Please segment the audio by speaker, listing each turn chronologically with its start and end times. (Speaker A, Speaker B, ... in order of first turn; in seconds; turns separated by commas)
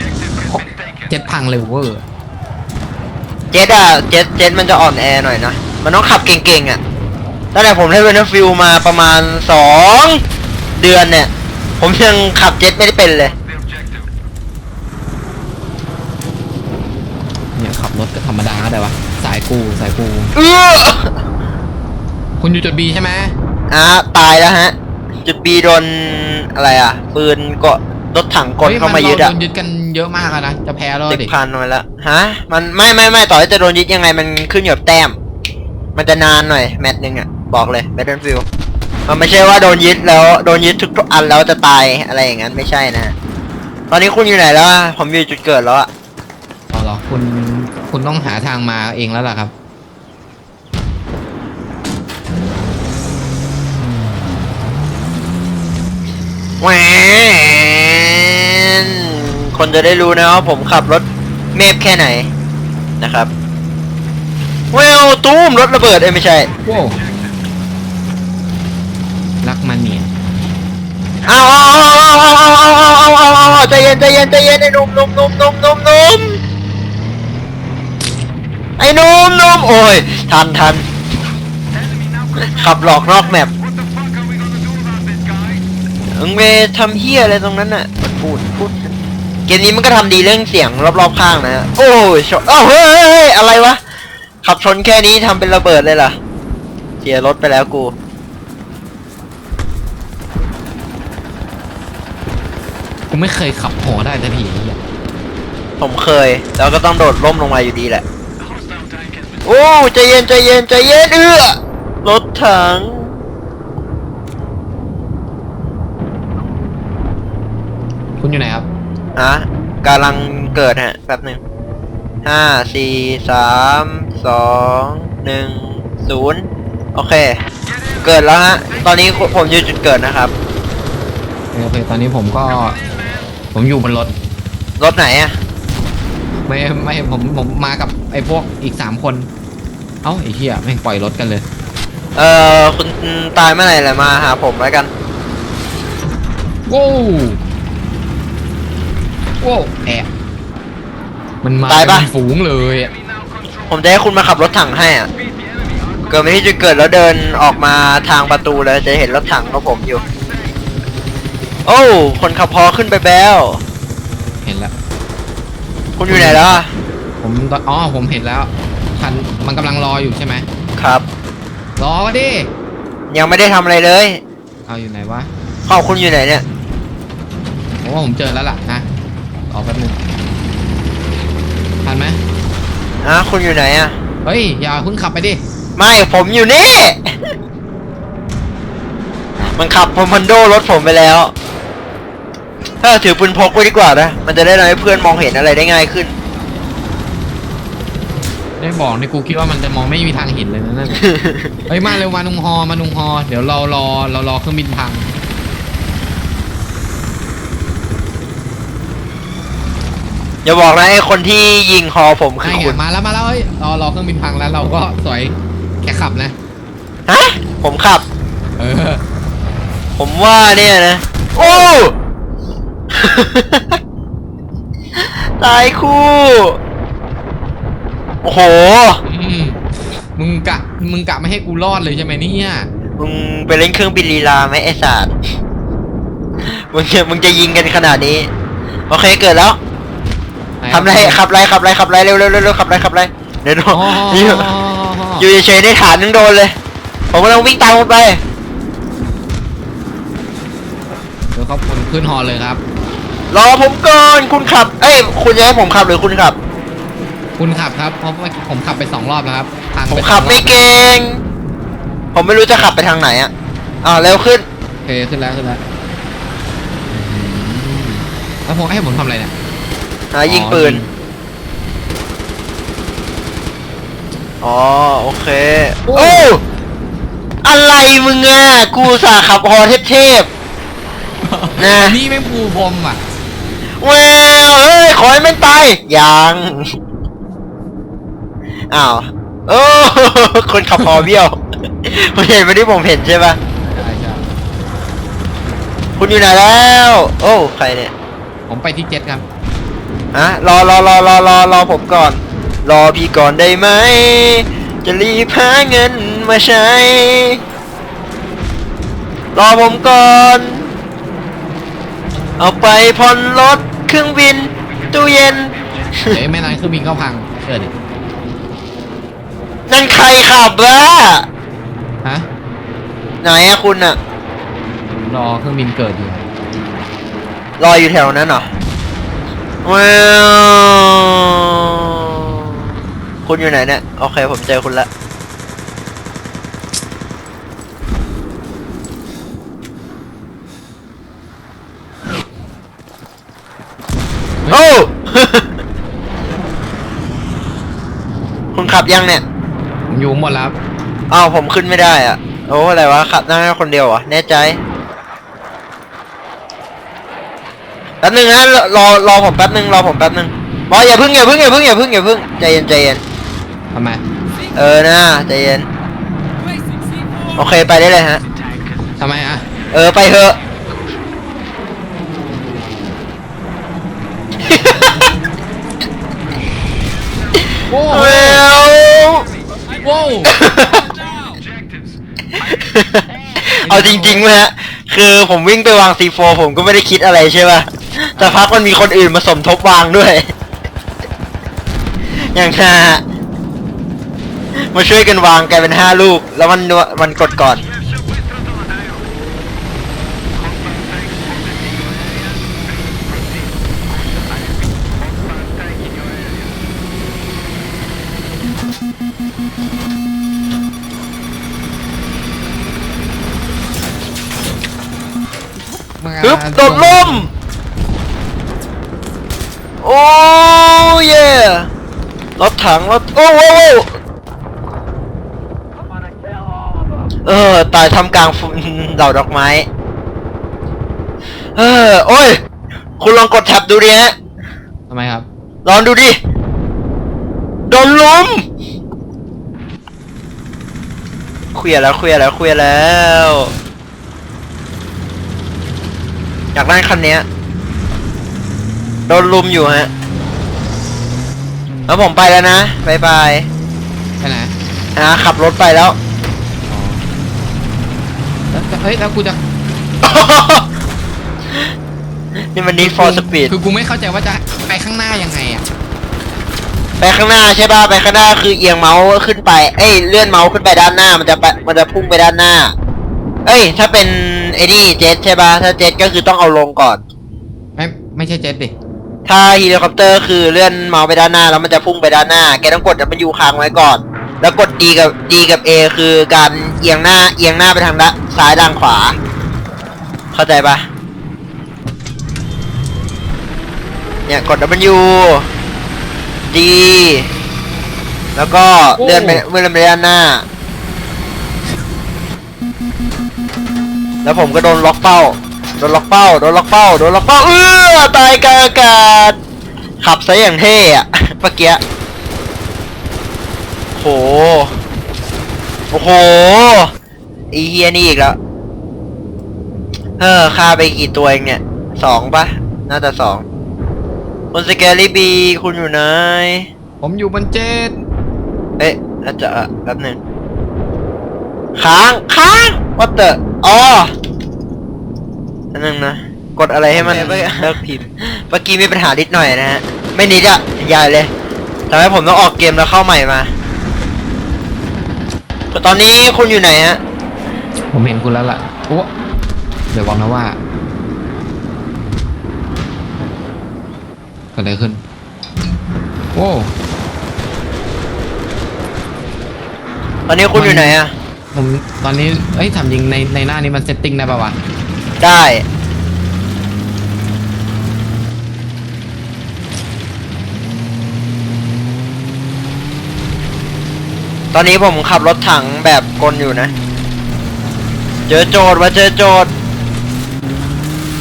Speaker A: 0.5-2.0, Speaker B: 3.5-6.8, Speaker B: 7.5-10.2, Speaker B: 10.8-13.3, Speaker A: 17.5-20.3, Speaker B: 20.3-21.1, Speaker A: 22.4-23.3, Speaker B: 23.7-29.3, Speaker A: 28.6-31.3, Speaker B: 31.1-35.1, Speaker B: 36.0-38.5, Speaker B: 39.1-43.1, Speaker B: 43.9-45.9, Speaker A: 46.7-49.5, Speaker B: 56.6-62.3, Speaker B: 63.0-63.3, Speaker B: 64.7-66.5, Speaker A: 66.7-67.0, Speaker A: 69.4-70.1, Speaker B: 71.2-76.4, Speaker B: 78.8-80.8, Speaker B: 82.4-83.5, Speaker B: 86.1-88.8, Speaker B: 89.5-93.8, Speaker B: 94.4-96.2, Speaker B: 97.0-97.9, Speaker A: 103.1-104.8, Speaker B: 105.8-108.0, Speaker B: 109.4-113.2, Speaker A: 118.2-118.7, Speaker B: 119.2-121.4, Speaker B: 122.2-127.4, Speaker B: 128.0-130.3, Speaker A: 131.5-132.8, Speaker A: 133.5-134.1, Speaker B: 134.8-135.3, Speaker A: 136.4-139.3, Speaker A: 140.0-141.4, Speaker B: 142.2-144.9, Speaker A: 146.7-147.4, Speaker A: 149.4-150.1, Speaker A: 151.4-152.9, Speaker B: 151.7-152.1, Speaker B: 153.7-155.1, Speaker B: 156.1-160.0, Speaker B: 161.6-163.6, Speaker A: 164.4-164.7, Speaker B: 166.0-166.7, Speaker A: 166.1-166.6, Speaker A: 167.2-170.5, Speaker B: 170.8-171.1, Speaker A: 171.8-172.5, Speaker B: 173.1-174.2, Speaker A: 174.7-175.3, Speaker B: 175.7-176.4, Speaker A: 177.8-178.8, Speaker A: 179.5-180.0, Speaker A: 181.8-182.2, Speaker B: 183.0-183.9, Speaker A: 184.2-185.4, Speaker B: 185.8-187.3, Speaker B: 189.5-191.3, Speaker B: 192.8-196.1, Speaker A: 198.6-201.1, Speaker B: 201.1-201.5, Speaker A: 201.7-205.1, Speaker B: 210.4-212.8, Speaker A: 212.4-216.3, Speaker B: 217.1-218.0, Speaker A: 218.6-219.0, Speaker B: 220.0-221.9, Speaker A: 221.4-221.7, Speaker B: 222.9-223.8, Speaker B: 224.9-226.6, Speaker B: 228.2-229.0, Speaker A: 229.1-229.6, Speaker A: 230.2-232.7, Speaker B: 233.0-235.1, Speaker B: 236.4-238.3, Speaker B: 238.9-239.6, Speaker A: 240.6-241.2, Speaker B: 240.7-244.5, Speaker A: 243.7-245.2, Speaker B: 245.2-246.6, Speaker B: 247.1-248.2, Speaker A: 251.3-252.6, Speaker B: 253.3-256.4, Speaker A: 257.4-260.7, Speaker B: 259.9-261.2, Speaker B: 262.1-263.3, Speaker B: 263.8-264.4, Speaker A: 264.8-265.6, Speaker A: 266.9-269.3, Speaker B: 270.1-270.8, Speaker A: 270.2-270.9, Speaker B: 274.4-276.4, Speaker A: 275.9-276.3, Speaker B: 277.4-280.3, Speaker A: 281.2-283.0, Speaker B: 281.6-282.0, Speaker B: 283.8-286.8, Speaker B: 288.7-293.4, Speaker A: 293.6-294.2, Speaker B: 296.0-297.9, Speaker A: 298.5-299.2, Speaker B: 300.1-307.4, Speaker B: 309.3-310.7, Speaker B: 312.4-316.2, Speaker A: 316.0-317.7, Speaker B: 319.7-321.3, Speaker B: 323.2-324.0, Speaker A: 324.9-326.3, Speaker B: 327.6-328.5, Speaker B: 329.6-332.6, Speaker B: 333.2-334.9, Speaker B: 344.5-345.5, Speaker B: 348.5-349.2, Speaker A: 349.9-350.6, Speaker B: 351.1-354.6, Speaker B: 358.0-363.0, Speaker A: 363.7-364.0, Speaker B: 364.5-365.7, Speaker B: 367.3-368.2, Speaker A: 369.0-369.4, Speaker B: 369.7-370.4, Speaker B: 374.4-374.9, Speaker A: 377.7-378.4, Speaker B: 377.9-379.3, Speaker A: 379.7-380.4, Speaker B: 380.3-380.9, Speaker B: 382.4-390.3, Speaker A: 383.6-384.2, Speaker A: 388.2-388.4, Speaker B: 392.3-393.0, Speaker B: 394.7-397.7, Speaker A: 415.7-417.3, Speaker B: 416.2-417.3, Speaker B: 419.8-421.7, Speaker B: 422.4-423.9, Speaker B: 427.2-429.7, Speaker B: 431.6-432.4, Speaker B: 433.0-434.1, Speaker A: 434.9-435.3, Speaker B: 435.6-436.2, Speaker B: 437.7-438.4, Speaker B: 441.5-443.5, Speaker B: 446.5-447.2, Speaker B: 449.1-449.9, Speaker A: 451.7-452.0, Speaker B: 451.9-453.5, Speaker A: 454.2-454.5, Speaker B: 454.9-456.0, Speaker A: 456.7-457.0, Speaker A: 458.5-459.4, Speaker B: 460.0-460.6, Speaker B: 462.5-463.5, Speaker A: 462.8-465.6, Speaker B: 467.0-472.7, Speaker B: 473.4-477.0, Speaker A: 477.8-478.7, Speaker B: 479.2-489.2, Speaker B: 490.3-490.9, Speaker B: 494.3-495.5, Speaker B: 496.5-497.3, Speaker B: 498.4-500.4, Speaker A: 499.0-499.4, Speaker B: 504.2-509.4, Speaker B: 510.0-511.8, Speaker B: 513.9-514.8, Speaker B: 515.9-516.9, Speaker B: 517.5-518.4, Speaker B: 520.2-523.4, Speaker B: 524.5-526.7, Speaker A: 527.0-528.0, Speaker B: 528.8-530.2, Speaker B: 531.8-534.1, Speaker B: 535.7-541.3, Speaker A: 536.9-537.8, Speaker B: 541.9-543.5, Speaker B: 545.7-547.0, Speaker A: 547.9-549.1, Speaker A: 549.9-550.6, Speaker A: 554.5-555.0, Speaker A: 556.3-556.7, Speaker B: 560.3-561.1, Speaker A: 560.5-561.0, Speaker A: 561.5-564.6, Speaker B: 565.2-565.6, Speaker B: 574.5-576.7, Speaker B: 578.3-579.5